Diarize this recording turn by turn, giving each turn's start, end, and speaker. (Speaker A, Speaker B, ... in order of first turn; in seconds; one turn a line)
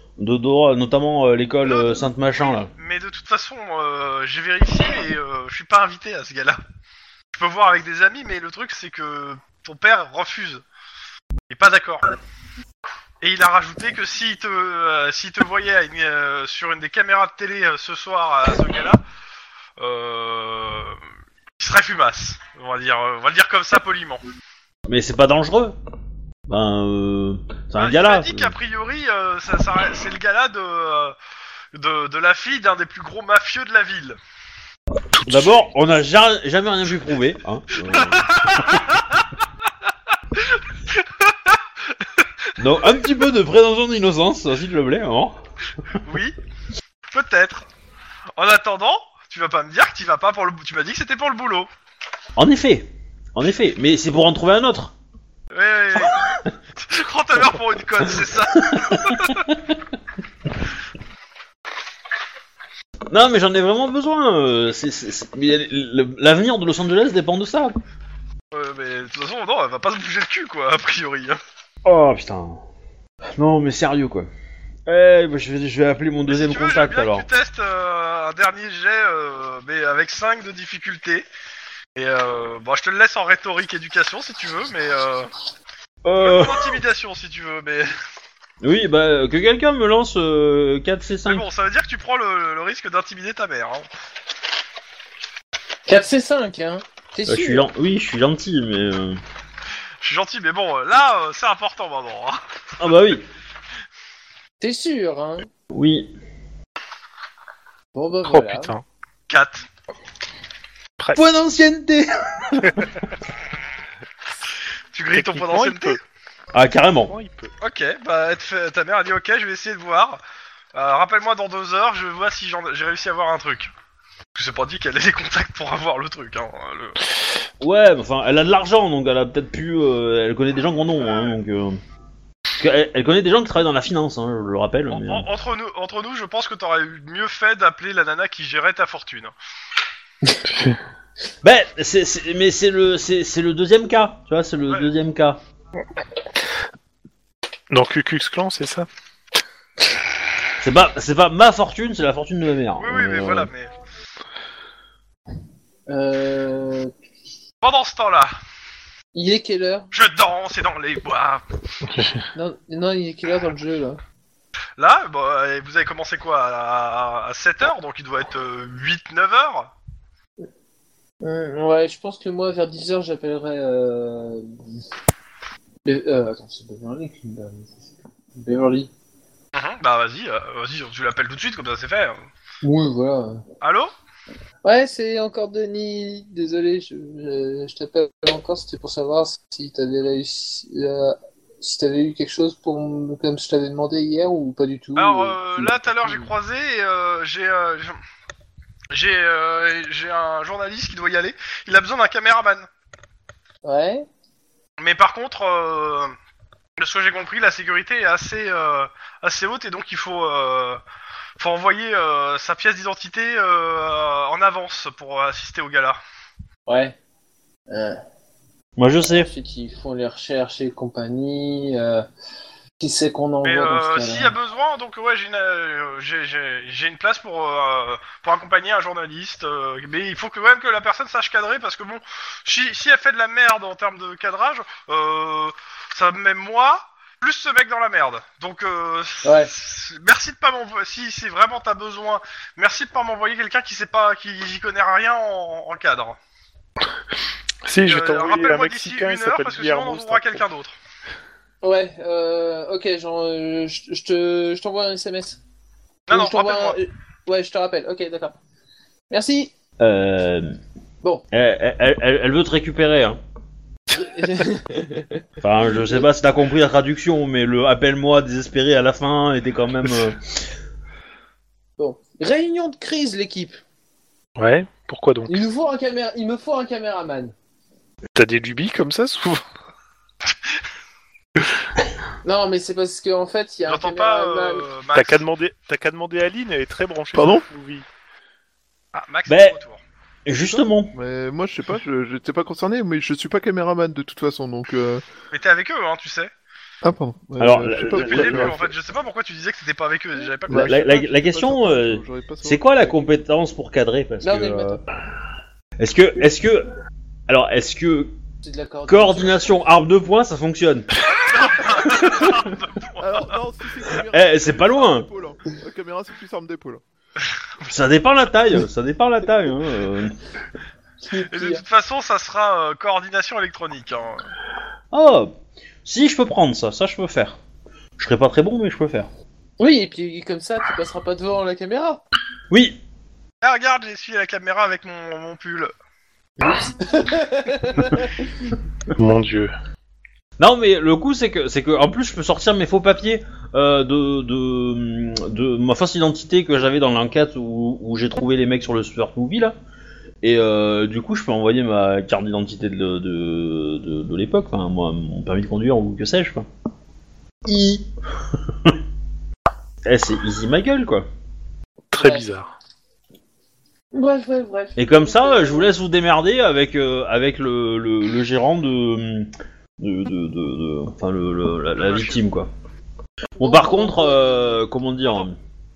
Speaker A: 0.2-2.7
Speaker B: 1.6-6.6
Speaker B: 7.3-10.6
Speaker B: 11.5-12.1
Speaker B: 13.2-19.0
Speaker B: 19.8-21.0
Speaker B: 21.6-24.2
Speaker A: 24.9-25.8
Speaker A: 26.5-28.5
Speaker B: 27.8-31.1
Speaker B: 31.7-34.2
Speaker C: 35.1-35.6
Speaker A: 35.2-38.6
Speaker B: 37.9-39.2
Speaker B: 40.4-41.6
Speaker A: 42.6-45.4
Speaker B: 46.0-46.4
Speaker B: 47.1-47.7
Speaker B: 48.4-51.7
Speaker A: 52.4-54.9
Speaker B: 55.5-56.2
Speaker B: 56.8-59.5
Speaker A: 58.7-59.5
Speaker A: 63.1-67.8
Speaker B: 68.5-71.4
Speaker A: 71.8-72.6
Speaker A: 73.3-74.3
Speaker A: 74.9-77.2
Speaker B: 76.3-81.3
Speaker B: 82.0-85.3
Speaker A: 86.0-86.8
Speaker B: 86.2-87.9
Speaker A: 88.6-91.5
Speaker B: 91.3-93.9
Speaker D: 95.9-97.7
Speaker A: 97.3-99.2
Speaker B: 100.0-102.4
Speaker A: 102.8-103.2
Speaker D: 104.6-105.5
Speaker A: 105.7-106.1
Speaker D: 107.9-108.7
Speaker C: 108.2-108.8
Speaker B: 109.3-109.7
Speaker A: 111.2-112.9
Speaker B: 114.9-116.0
Speaker C: 115.1-116.0
Speaker A: 116.5-117.1
Speaker C: 117.0-117.5
Speaker B: 117.6-120.2
Speaker B: 120.8-123.7
Speaker B: 124.3-127.0
Speaker A: 127.6-131.8
Speaker A: 132.6-135.3
Speaker B: 134.9-139.3
Speaker C: 140.5-140.8
Speaker A: 141.4-145.4
Speaker C: 147.7-148.9
Speaker A: 150.6-153.5
Speaker B: 152.8-153.7
Speaker D: 155.9-156.9
Speaker B: 157.6-158.3
Speaker D: 159.1-159.9
Speaker B: 159.9-161.4
Speaker C: 161.9-162.2
Speaker D: 162.3-164.0
Speaker B: 164.8-169.7
Speaker D: 171.2-174.8
Speaker D: 175.8-178.9
Speaker B: 179.5-182.2
Speaker D: 182.6-183.4
Speaker B: 183.6-183.9
Speaker D: 184.6-196.3
Speaker B: 194.9-198.0
Speaker B: 198.9-202.7
Speaker D: 203.6-204.1
Speaker B: 204.8-206.1
Speaker B: 206.8-210.8
Speaker B: 211.4-216.0
Speaker D: 216.7-217.0
Speaker D: 217.7-218.0
Speaker A: 218.8-219.3
Speaker D: 219.0-222.1
Speaker D: 222.8-224.3
Speaker B: 223.4-246.2
Speaker D: 239.2-239.5
Speaker C: 247.6-250.4
Speaker B: 247.8-250.8
Speaker D: 251.6-255.4
Speaker B: 256.1-256.8
Speaker D: 256.1-258.4
Speaker D: 259.1-259.5
Speaker A: 259.8-260.6
Speaker A: 261.3-263.2
Speaker D: 263.9-266.1
Speaker A: 265.4-270.5
Speaker D: 271.8-273.6
Speaker C: 274.4-275.4
Speaker D: 275.3-277.3
Speaker C: 278.1-279.4
Speaker D: 282.2-284.7
Speaker B: 283.7-285.3
Speaker C: 284.9-287.9
Speaker E: 287.1-287.4
Speaker B: 288.9-289.8
Speaker A: 289.3-289.6
Speaker A: 290.3-290.9
Speaker E: 290.4-295.0
Speaker B: 295.3-296.3
Speaker E: 296.8-298.7
Speaker A: 297.4-298.6
Speaker B: 297.9-300.8
Speaker E: 300.5-303.0
Speaker A: 300.5-304.8
Speaker D: 304.2-304.8
Speaker A: 305.8-306.7
Speaker A: 307.3-308.1
Speaker D: 308.4-309.6
Speaker A: 308.9-311.0
Speaker B: 311.2-313.4
Speaker A: 311.7-312.4
Speaker E: 313.0-316.8
Speaker A: 314.1-315.1
Speaker A: 317.6-320.2
Speaker D: 321.0-321.6
Speaker B: 321.3-324.2
Speaker A: 324.9-325.3
Speaker A: 325.9-327.4
Speaker A: 328.0-329.1
Speaker D: 329.6-332.0
Speaker A: 332.5-332.8
Speaker B: 333.4-335.7
Speaker D: 336.4-338.1
Speaker C: 338.9-339.5
Speaker A: 340.4-349.6
Speaker A: 350.2-356.5
Speaker A: 357.4-357.9
Speaker A: 359.9-361.1
Speaker C: 361.9-362.5
Speaker D: 362.0-362.2
Speaker D: 363.9-365.7
Speaker A: 364.8-372.5
Speaker B: 371.8-372.2
Speaker A: 373.4-375.4
Speaker D: 373.4-374.5